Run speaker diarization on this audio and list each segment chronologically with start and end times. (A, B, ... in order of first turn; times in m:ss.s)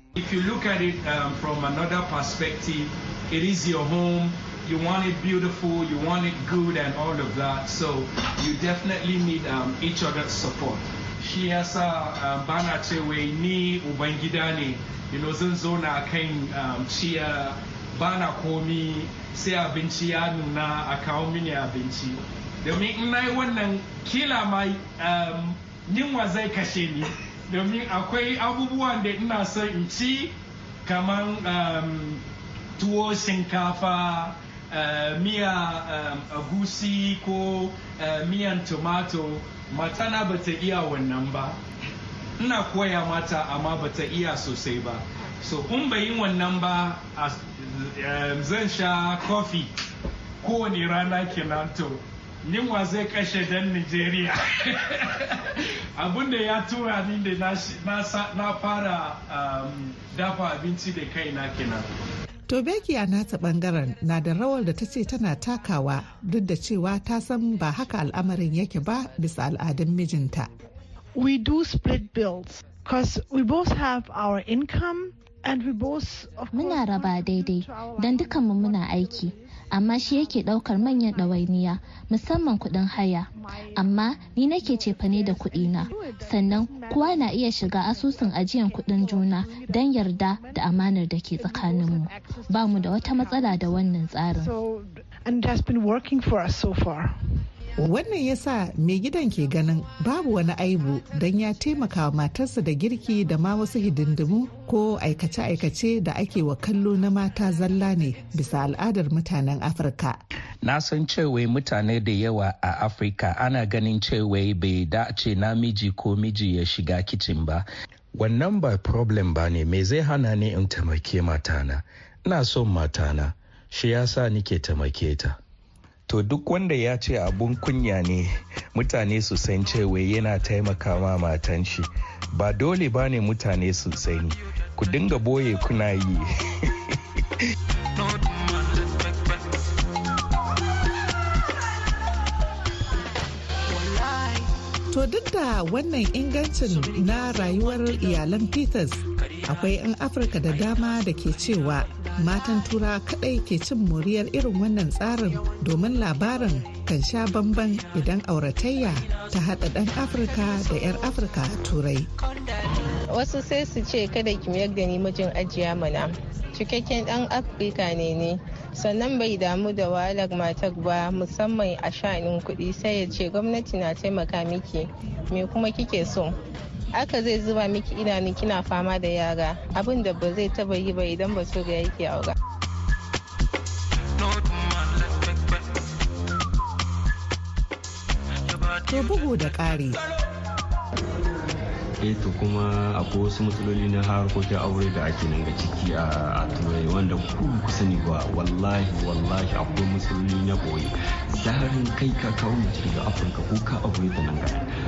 0:00.2-0:30.3 A
0:30.8-0:32.2 A
0:32.8-0:41.6 A
0:42.4-0:49.7 A
0:50.4-1:01.9 A
1:02.5-1:10.5 B
1:11.2-1:19.3 C
1:16.5-1:34.5 D
1:23.4-1:24.0 C
1:24.6-1:30.7 C
1:31.3-1:33.8 C
1:34.3-1:37.2 C
1:37.8-1:50.2 B
1:50.6-2:05.4 E
2:06.1-2:16.3 E
2:24.9-2:42.1 B
2:43.1-2:56.3 F
2:56.9-3:02.4 F
3:08.9-3:10.0 B
3:12.0-3:24.7 G